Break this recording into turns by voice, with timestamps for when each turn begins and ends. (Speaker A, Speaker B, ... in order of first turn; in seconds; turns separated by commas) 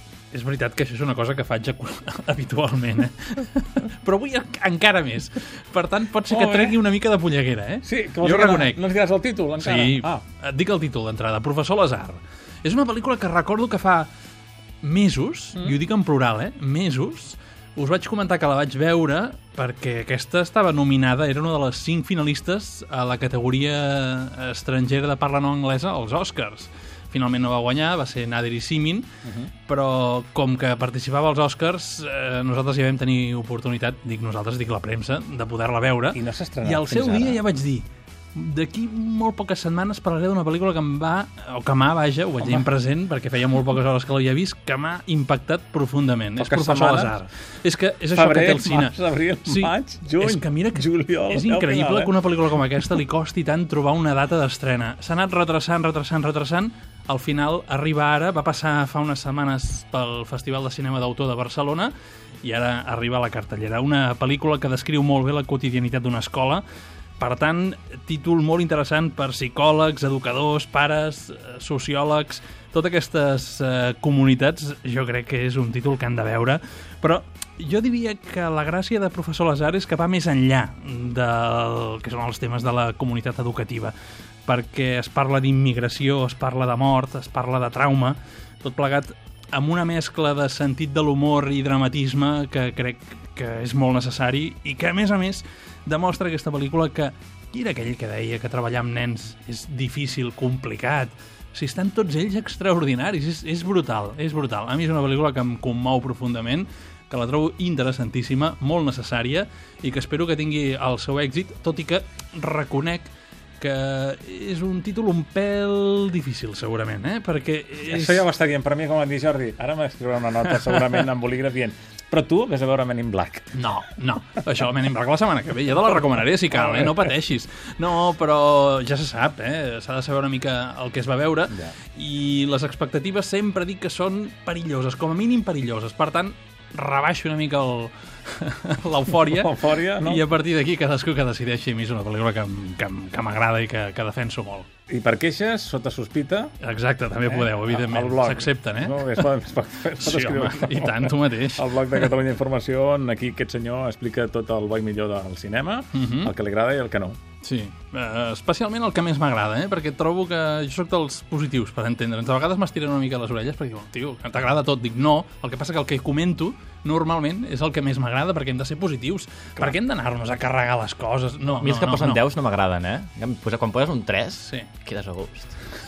Speaker A: 0.3-8.8, Speaker B: 6.3-6.8, Speaker B: 7.8-10.2, Speaker A: 9.6-14.1, Speaker A: 14.8-29.1, Speaker B: 29.2-29.5, Speaker A: 29.7-48.9, Speaker B: 36.1-37.4, Speaker B: 42.4-42.6, Speaker B: 46.4-47.2, Speaker B: 48.1-52.1, Speaker A: 49.4-66.6, Speaker A: 67.2-83.9, Speaker A: 84.5-118.2, Speaker B: 117.8-123.5, Speaker A: 123.5-144.7, Speaker B: 126.5-126.9, Speaker B: 139.2-140.2, Speaker B: 144.9-146.5, Speaker A: 146.6-149.3, Speaker B: 147.2-157.2, Speaker A: 149.9-152.1, Speaker A: 155.9-156.3, Speaker A: 157.4-172.2, Speaker C: 171.5-175.6, Speaker A: 174.4-174.7